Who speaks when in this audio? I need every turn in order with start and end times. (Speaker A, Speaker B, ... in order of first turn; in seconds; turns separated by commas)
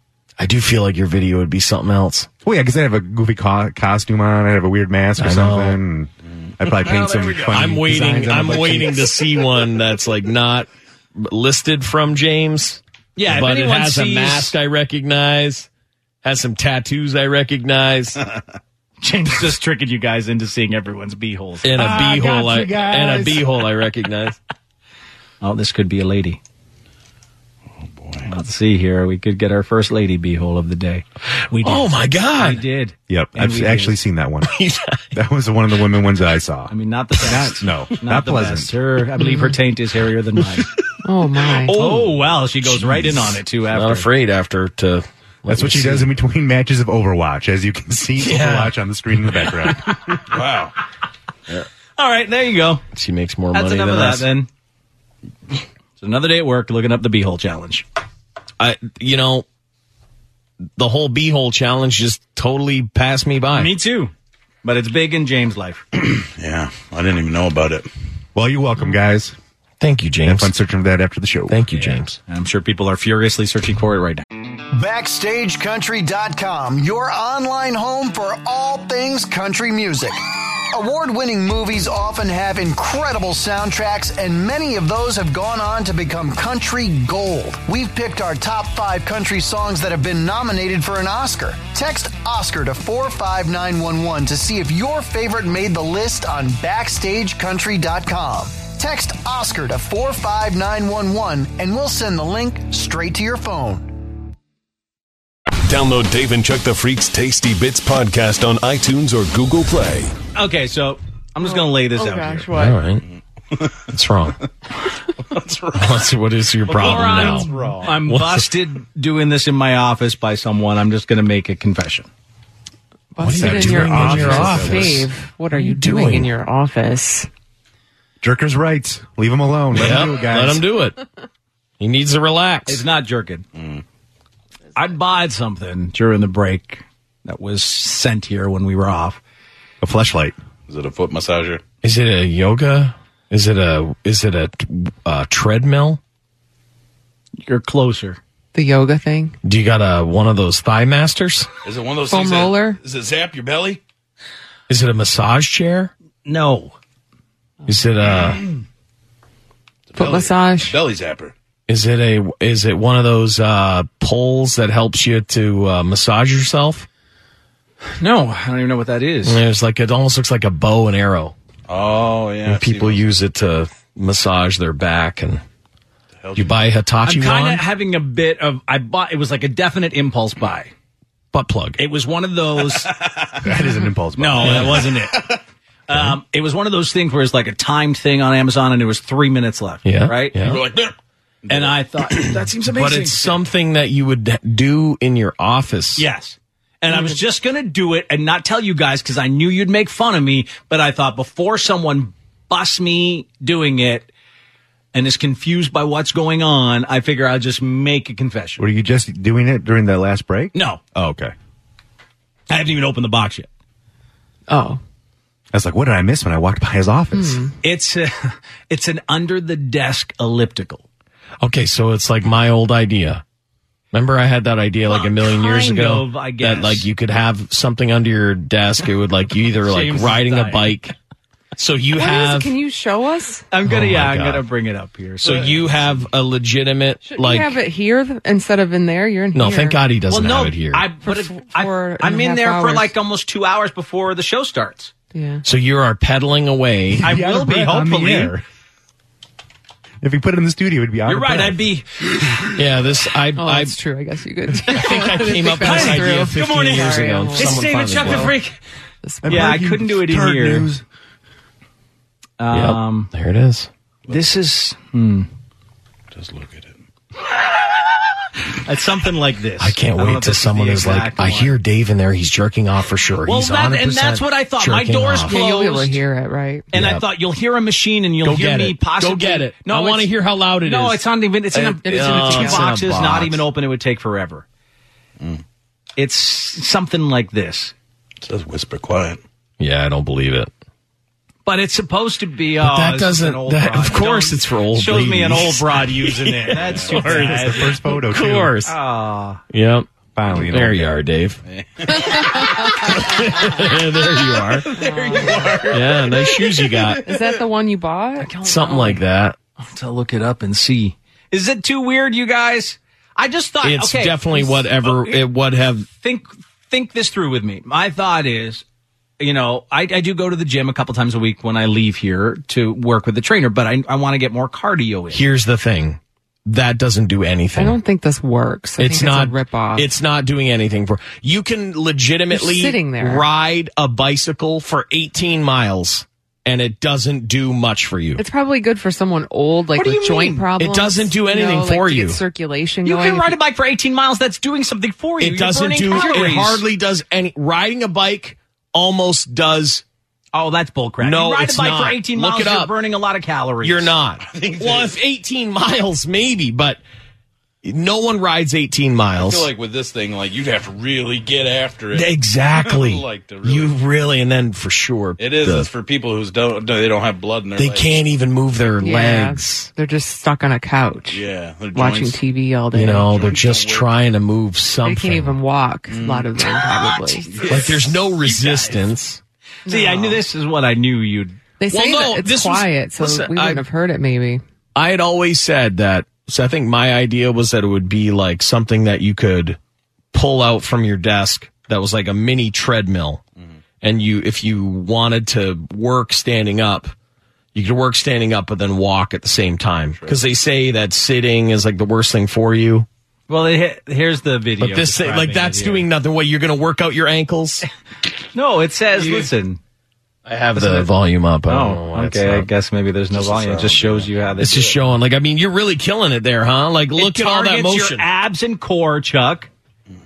Speaker A: 0.4-2.3, Speaker B: 2.4-9.2, Speaker A: 5.2-5.8, Speaker C: 6.8-7.6, Speaker A: 7.5-15.7, Speaker C: 13.2-14.6, Speaker A: 16.2-18.2, Speaker C: 19.0-22.0, Speaker A: 21.6-24.4, Speaker B: 21.7-23.5, Speaker C: 25.4-26.4, Speaker D: 27.9-28.3, Speaker C: 28.2-34.0, Speaker A: 31.6-32.6, Speaker B: 33.1-34.5, Speaker A: 34.5-35.0, Speaker B: 35.1-38.8, Speaker C: 36.7-40.7, Speaker E: 39.2-39.6, Speaker E: 41.0-41.8, Speaker A: 41.7-46.1, Speaker C: 41.7-44.1, Speaker B: 45.5-50.0, Speaker A: 48.2-48.8, Speaker D: 50.2-50.7, Speaker C: 52.0-52.8, Speaker A: 52.9-54.3, Speaker C: 53.5-54.5, Speaker C: 56.0-57.9, Speaker A: 58.6-59.5, Speaker A: 60.8-63.8, Speaker C: 63.5-64.1, Speaker C: 64.6-65.8, Speaker D: 66.0-67.9, Speaker B: 68.3-69.4, Speaker A: 69.8-70.5, Speaker B: 70.2-71.6, Speaker A: 71.5-72.2, Speaker C: 71.8-74.2, Speaker F: 74.7-103.9, Speaker G: 105.7-110.1, Speaker C: 110.3-112.5, Speaker E: 111.4-112.8, Speaker A: 112.5-113.0, Speaker D: 113.1-113.8, Speaker A: 113.9-114.4, Speaker D: 115.2-116.1, Speaker A: 115.8-118.5, Speaker D: 116.7-118.0, Speaker C: 116.7-122.1, Speaker E: 123.2-127.3, Speaker A: 123.2-126.3, Speaker B: 123.3-124.9, Speaker D: 124.2-124.6, Speaker B: 128.2-130.6, Speaker A: 129.7-131.0, Speaker A: 131.8-132.8, Speaker C: 132.7-133.5, Speaker D: 133.6-133.8, Speaker C: 134.8-139.2, Speaker B: 139.8-140.4, Speaker D: 140.7-141.6, Speaker A: 141.8-146.0, Speaker C: 147.4-148.2, Speaker E: 148.5-149.3, Speaker A: 149.4-151.5, Speaker D: 151.6-153.8, Speaker E: 152.1-152.8, Speaker A: 154.7-155.9, Speaker C: 156.2-156.8, Speaker A: 157.7-158.4, Speaker D: 159.9-161.3, Speaker E: 159.9-160.8, Speaker A: 161.7-166.9, Speaker C: 168.0-169.4, Speaker A: 169.2-171.3, Speaker D: 171.7-173.1, Speaker A: 172.4-175.4, Speaker D: 176.2-176.6, Speaker A: 176.3-177.6, Speaker C: 177.0-180.7, Speaker A: 181.3-181.8, Speaker C: 181.8-182.9, Speaker D: 182.9-183.4, Speaker B: 183.4-184.9, Speaker C: 184.2-185.3, Speaker C: 185.9-190.4, Speaker A: 189.8-190.6, Speaker D: 190.4-190.9, Speaker D: 191.5-191.8, Speaker C: 191.5-193.3, Speaker A: 192.4-196.1, Speaker C: 196.0-204.1, Speaker E: 196.9-197.2, Speaker C: 204.9-208.7, Speaker B: 208.6-211.3, Speaker C: 210.5-210.8, Speaker C: 212.5-213.5, Speaker E: 214.5-214.8, Speaker B: 215.5-217.5, Speaker E: 217.1-217.5, Speaker C: 217.6-220.8, Speaker A: 221.4-223.2, Speaker A: 223.9-230.9, Speaker C: 224.9-226.9, Speaker C: 229.6-230.7, Speaker A: 231.6-232.5, Speaker E: 231.9-233.4, Speaker C: 233.5-235.7, Speaker A: 233.7-234.4, Speaker A: 235.2-237.6, Speaker E: 237.0-239.8, Speaker A: 239.3-240.9, Speaker C: 240.1-244.9, Speaker E: 241.0-242.9, Speaker E: 245.1-245.4, Speaker A: 245.4-247.1, Speaker B: 246.9-248.4, Speaker C: 247.0-248.4, Speaker B: 250.0-252.5, Speaker C: 251.1-251.9, Speaker A: 252.6-253.8, Speaker E: 253.4-258.4, Speaker A: 254.7-258.4, Speaker C: 255.6-258.6, Speaker E: 259.0-259.6, Speaker B: 259.2-260.8, Speaker C: 259.3-260.7, Speaker C: 262.4-263.1, Speaker A: 262.5-263.7, Speaker C: 264.1-265.3, Speaker D: 266.1-266.8, Speaker C: 268.6-271.5, Speaker A: 269.6-275.4, Speaker C: 273.3-276.0, Speaker E: 275.3-276.7, Speaker C: 276.7-280.1, Speaker A: 276.7-277.0, Speaker A: 278.2-283.5, Speaker C: 280.6-284.4, Speaker E: 281.9-282.9, Speaker C: 286.0-287.7, Speaker D: 288.2-289.2, Speaker A: 289.6-290.5, Speaker C: 291.5-297.8, Speaker A: 292.6-298.7, Speaker B: 296.9-298.6, Speaker C: 298.6-299.4, Speaker A: 299.5-301.4, Speaker B: 300.1-301.0, Speaker D: 301.5-303.3, Speaker A: 302.8-304.7, Speaker D: 304.7-307.4, Speaker E: 304.8-305.7, Speaker A: 305.7-307.0, Speaker E: 307.0-308.9, Speaker A: 308.4-309.4, Speaker C: 308.4-308.9, Speaker C: 309.6-315.3, Speaker A: 313.6-315.9, Speaker C: 315.9-318.6, Speaker C: 319.2-325.2, Speaker A: 325.1-327.8, Speaker E: 327.6-329.9, Speaker A: 328.8-338.2, Speaker E: 332.3-333.3, Speaker E: 338.2-343.4, Speaker C: 339.7-340.5, Speaker A: 340.6-342.2, Speaker C: 342.8-346.6, Speaker A: 345.2-349.8, Speaker E: 345.9-346.3, Speaker C: 350.3-353.9, Speaker A: 351.0-352.7, Speaker A: 353.6-356.8, Speaker D: 354.2-355.0, Speaker A: 357.6-359.5, Speaker D: 359.2-363.8, Speaker A: 361.9-365.7, Speaker D: 365.2-368.0, Speaker A: 367.6-369.7, Speaker E: 368.8-373.2, Speaker D: 371.1-372.2, Speaker A: 372.7-375.4, Speaker D: 373.0-373.9, Speaker E: 374.8-377.5, Speaker D: 375.9-378.0, Speaker C: 377.4-377.7, Speaker A: 377.5-379.2, Speaker C: 378.3-378.8, Speaker C: 379.7-381.4, Speaker E: 379.7-380.2, Speaker E: 381.6-384.4, Speaker A: 381.7-383.6, Speaker A: 384.8-389.6, Speaker A: 390.1-393.2, Speaker A: 393.8-396.9, Speaker A: 397.5-402.9, Speaker D: 399.9-400.2, Speaker C: 403.3-405.9, Speaker A: 404.6-407.7, Speaker C: 408.3-409.6, Speaker A: 410.3-412.5, Speaker C: 410.6-410.9, Speaker C: 411.5-414.8, Speaker D: 413.1-414.3, Speaker A: 414.4-418.1, Speaker C: 417.0-419.5